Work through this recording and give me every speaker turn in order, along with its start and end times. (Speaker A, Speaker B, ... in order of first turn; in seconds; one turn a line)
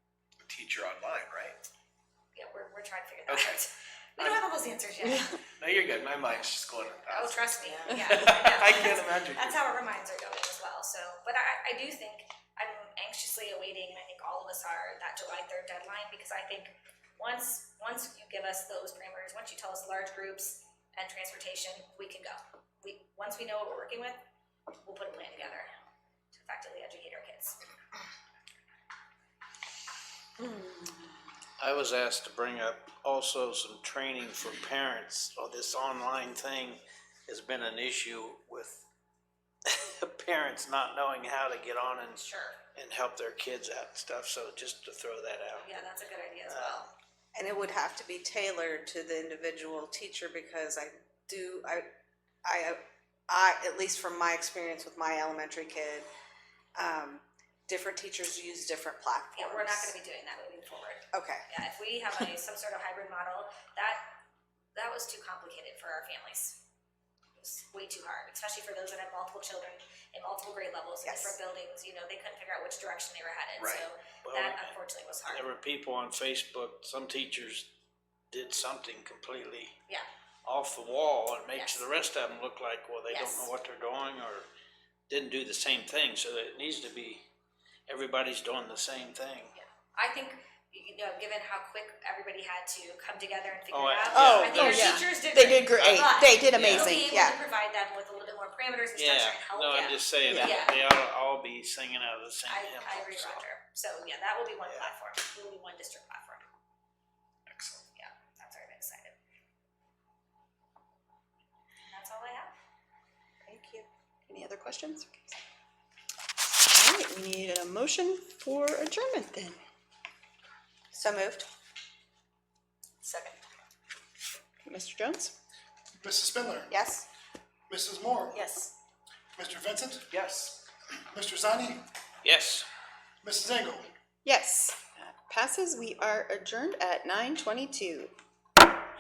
Speaker A: 0.4-1.6
Speaker B: 2.4-5.4
Speaker A: 3.3-3.6
Speaker A: 5.6-9.7
Speaker B: 7.1-24.2
Speaker B: 24.8-25.7
Speaker B: 26.3-27.6
Speaker C: 31.6-38.9
Speaker C: 39.6-45.8
Speaker B: 42.2-42.6
Speaker B: 45.6-46.9
Speaker C: 46.5-46.9
Speaker D: 47.3-51.9
Speaker D: 52.4-56.1
Speaker D: 56.8-59.9
Speaker B: 59.4-64.0
Speaker D: 61.1-61.5
Speaker B: 64.8-66.6
Speaker B: 67.4-75.4
Speaker D: 71.0-71.3
Speaker A: 73.6-73.9
Speaker C: 74.2-77.7
Speaker C: 78.3-79.8
Speaker C: 80.4-84.5
Speaker B: 81.5-81.9
Speaker B: 83.1-83.5
Speaker C: 85.1-87.2
Speaker C: 87.9-89.5
Speaker B: 90.0-100.8
Speaker C: 93.7-97.0
Speaker D: 94.2-95.0
Speaker E: 94.2-97.2
Speaker D: 96.8-97.3
Speaker C: 99.0-103.5
Speaker B: 102.5-106.5
Speaker A: 107.5-107.9
Speaker B: 108.0-109.2
Speaker B: 111.9-112.5
Speaker E: 113.5-115.3
Speaker E: 116.6-119.6
Speaker E: 121.0-121.5
Speaker D: 121.0-121.4
Speaker E: 124.7-125.3
Speaker F: 126.0-126.8
Speaker D: 126.7-127.0
Speaker F: 127.7-128.4
Speaker F: 129.4-130.1
Speaker A: 130.1-130.6
Speaker F: 131.1-131.8
Speaker C: 132.2-132.7
Speaker F: 133.2-133.9
Speaker E: 134.3-138.1